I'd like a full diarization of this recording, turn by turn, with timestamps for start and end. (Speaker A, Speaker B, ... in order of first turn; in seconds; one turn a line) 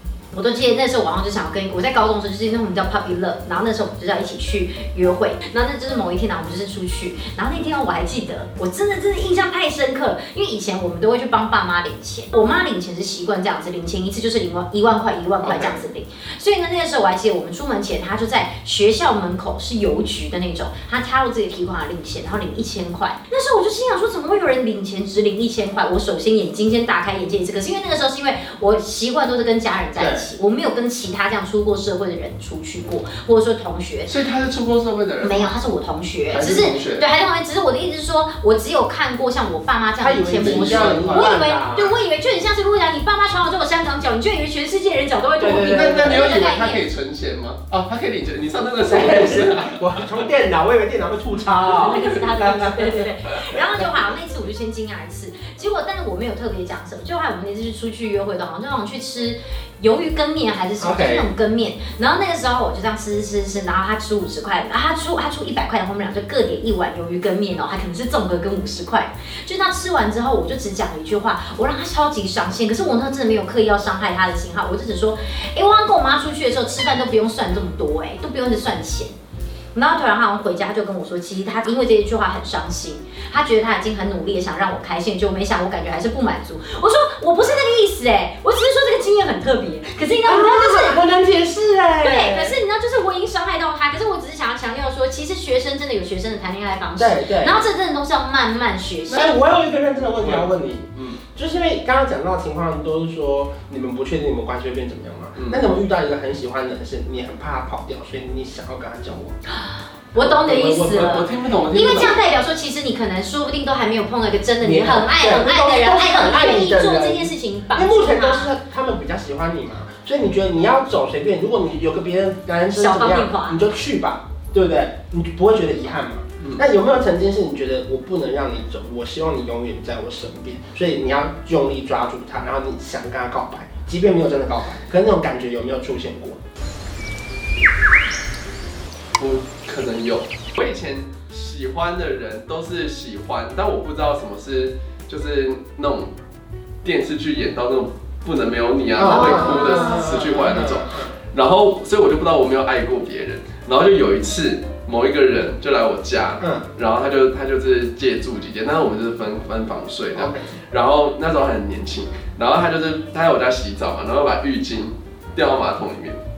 Speaker A: 0.3-34.1
Speaker B: 15.4-15.8
Speaker B: 30.0-30.3
Speaker C: 34.1-35.5
Speaker A: 35.2-46.8
Speaker C: 36.3-37.0
Speaker B: 40.0-42.0
Speaker C: 40.4-41.4
Speaker B: 45.4-46.2
Speaker C: 45.4-50.0
Speaker B: 48.8-52.5
Speaker A: 51.5-79.1
Speaker B: 60.8-61.2
Speaker A: 79.7-91.0
Speaker B: 90.2-92.6
Speaker A: 92.0-99.3
Speaker B: 97.0-97.6
Speaker B: 99.1-109.3
Speaker C: 100.2-101.2
Speaker C: 105.3-105.7
Speaker A: 109.5-118.5
Speaker B: 110.2-111.7
Speaker C: 110.9-112.2
Speaker B: 114.6-136.4
Speaker A: 122.7-123.6
Speaker C: 139.2-146.1
Speaker C: 146.8-166.2
Speaker B: 148.9-151.1
Speaker A: 149.0-150.6
Speaker B: 156.4-156.6
Speaker B: 160.1-160.5